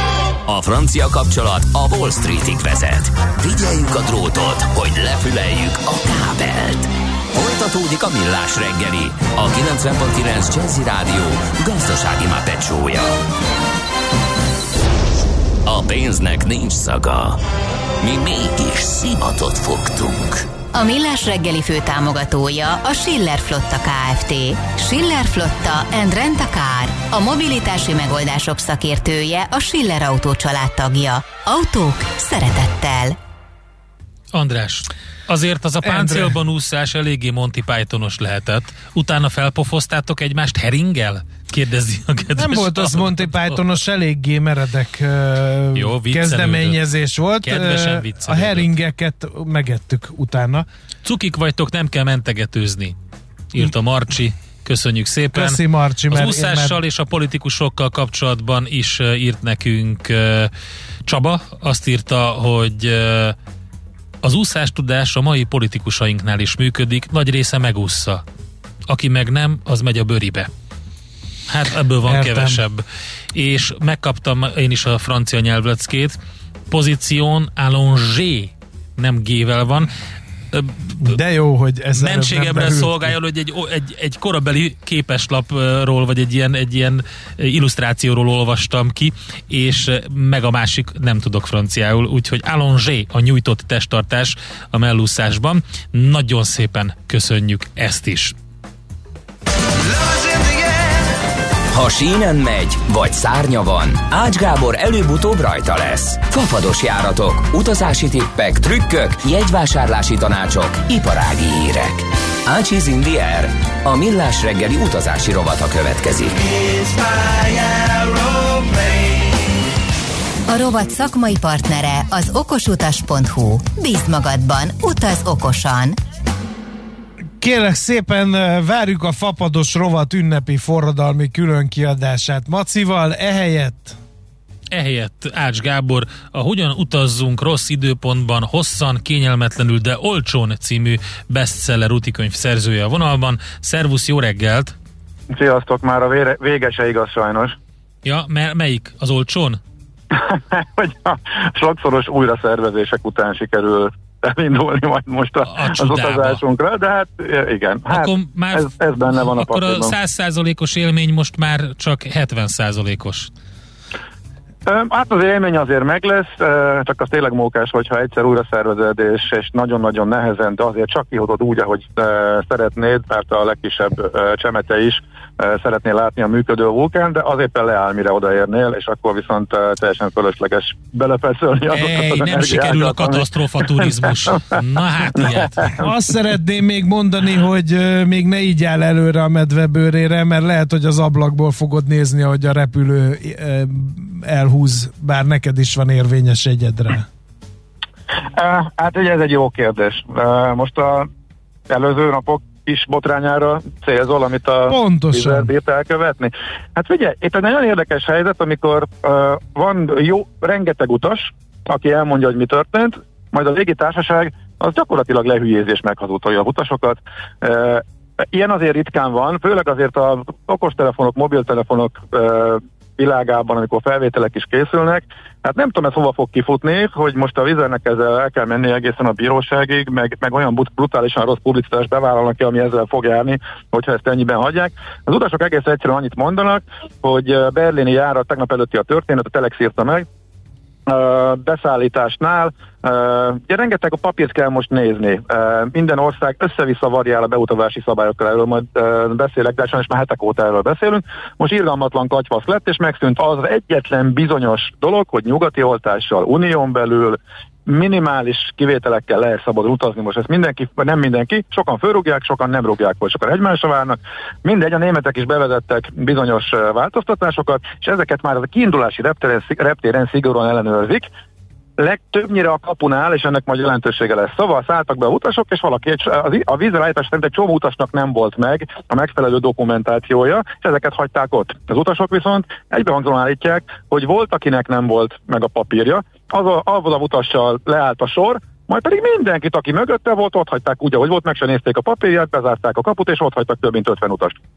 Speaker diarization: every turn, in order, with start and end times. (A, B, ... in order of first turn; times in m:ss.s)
0:00.5-0:13.2 A
0:15.6-0:17.4 A
0:18.0-0:20.5 A
0:20.7-0:33.2 B
0:34.3-0:43.6 C
0:35.8-0:36.4 D
0:42.4-0:50.7 D
0:45.8-0:46.8 C
0:47.4-0:48.7 C
0:51.0-0:53.0 C
0:53.5-1:00.5 C
0:55.3-0:56.8 D
1:01.1-1:03.4 C
1:04.2-1:08.2 C
1:08.9-1:10.5 C
1:11.5-1:16.2 C
1:12.1-1:12.6 D
1:16.7-1:19.9 C
1:20.5-1:21.2 C
1:21.0-1:23.1 D
1:22.0-1:38.3 C
1:40.0-1:40.7 A
1:41.7-1:56.5 A
2:00.5-2:06.0 B
2:07.4-2:14.0 D
2:14.7-2:24.7 C
2:25.3-2:27.6 E
2:28.0-2:29.6 C
2:30.1-2:39.9 E
2:35.5-2:36.4 C
2:37.9-2:43.3 C
2:44.7-3:04.6 E
3:01.7-3:05.7 C
3:05.2-3:05.8 E
3:05.8-3:17.1 D
3:18.4-3:21.1 E
3:21.7-4:00.1 E
3:24.7-3:25.5 D
4:00.9-4:31.1 E
4:31.8-4:54.4 E